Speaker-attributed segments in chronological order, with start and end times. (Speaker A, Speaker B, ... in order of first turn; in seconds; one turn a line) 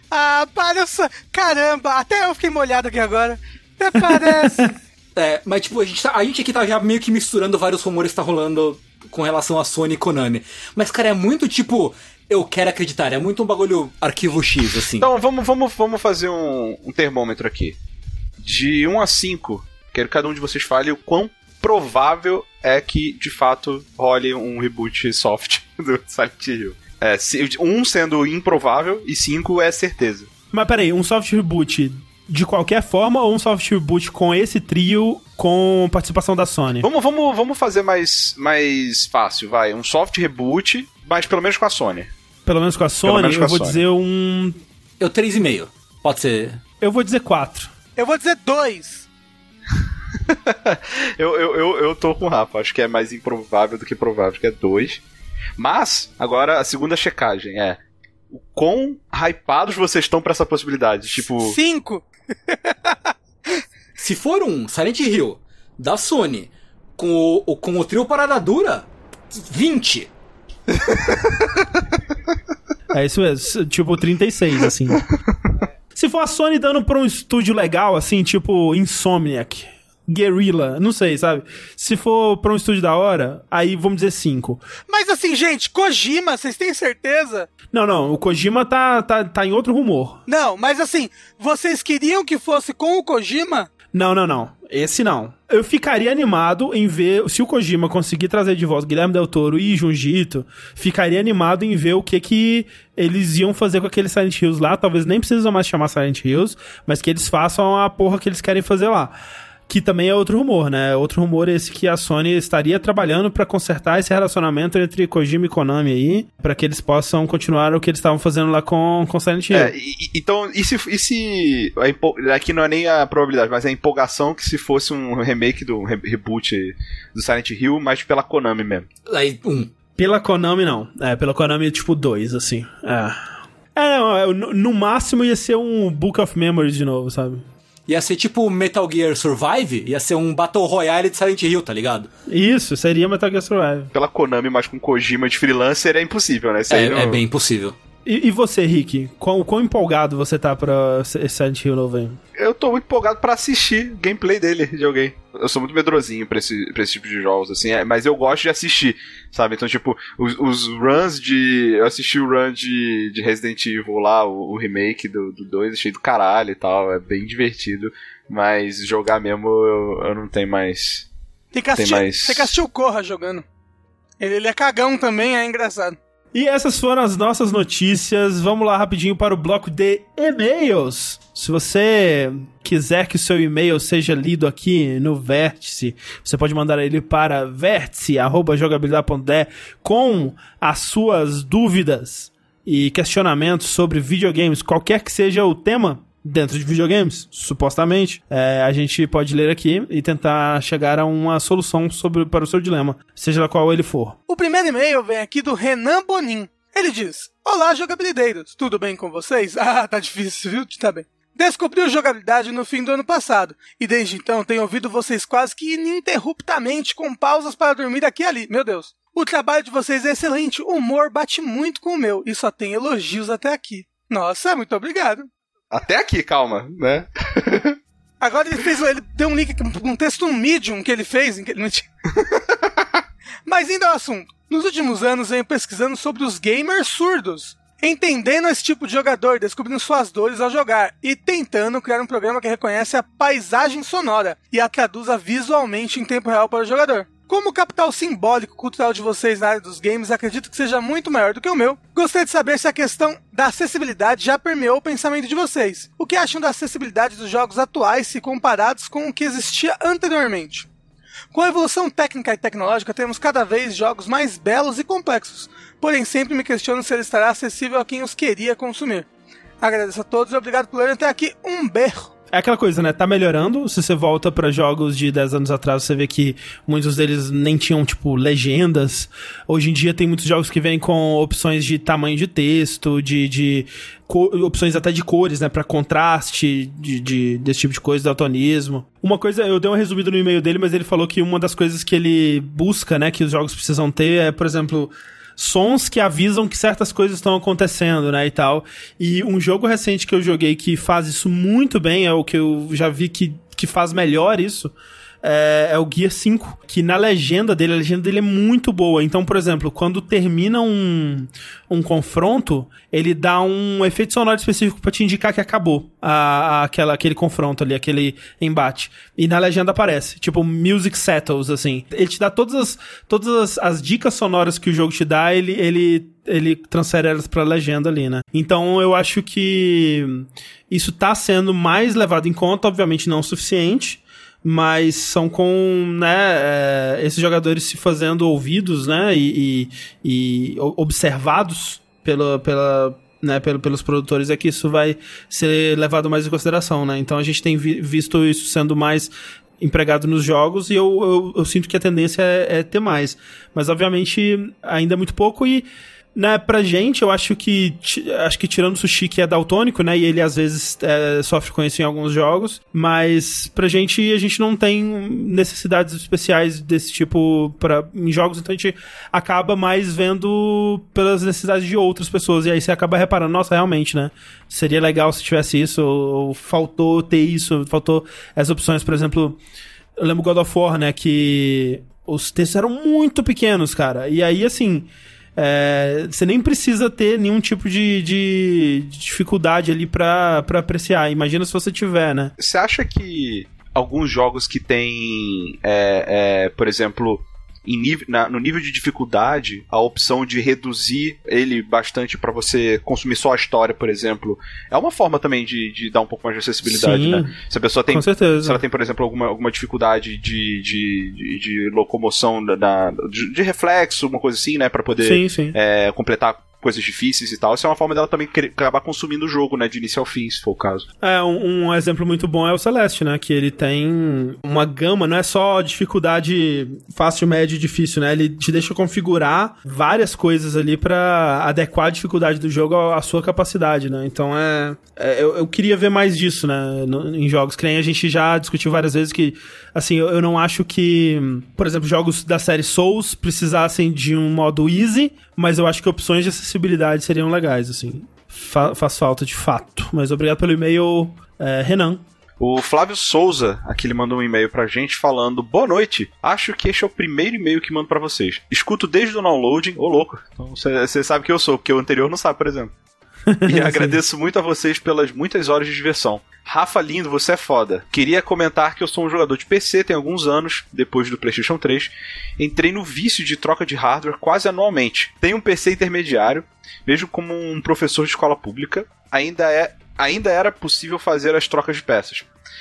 Speaker A: 0.1-4.7
Speaker B: 4.3-4.7
Speaker C: 5.1-15.1
Speaker D: 15.0-17.8
Speaker D: 18.4-30.3
Speaker B: 30.5-36.9
Speaker D: 36.8-42.1
Speaker B: 42.5-44.6
Speaker D: 43.0-43.8
Speaker C: 45.0-46.6
Speaker B: 46.8-47.7
Speaker A: 48.0-49.0
Speaker D: 50.3-55.0
Speaker D: 55.6-57.8
Speaker D: 58.3-61.5
Speaker A: 61.4-63.1
Speaker C: 64.0-70.1
Speaker B: 72.9-75.0
Speaker B: 75.9-84.6
Speaker A: 84.9-87.5
Speaker B: 87.7-90.2
Speaker A: 90.3-93.7
Speaker B: 93.9-109.2
Speaker B: 109.7-119.7
Speaker D: 119.5-128.9
Speaker C: 129.1-129.7
Speaker B: 130.0-133.2
Speaker B: 133.7-137.4
Speaker C: 137.9-142.1
Speaker B: 142.3-143.9
Speaker D: 143.9-147.2
Speaker C: 146.7-147.8
Speaker B: 148.0-152.2
Speaker D: 152.3-171.1
Speaker A: 171.5-173.4
Speaker D: 171.7-172.5
Speaker A: 174.2-176.0
Speaker B: 176.3-204.2
Speaker A: 204.3-225.3
Speaker D: 225.7-227.8
Speaker A: 228.2-231.9
Speaker A: 233.4-260.7
Speaker A: 261.3-269.1
Speaker A: 269.6-272.1
Speaker B: 272.3-379.4
Speaker B: 380.0-392.3
Speaker D: 392.4-420.9
Speaker B: 406.6-407.3
Speaker B: 407.9-408.6
Speaker B: 415.0-415.5
Speaker B: 421.0-452.0
Speaker D: 452.4-462.7
Speaker B: 463.3-463.9
Speaker D: 463.4-482.3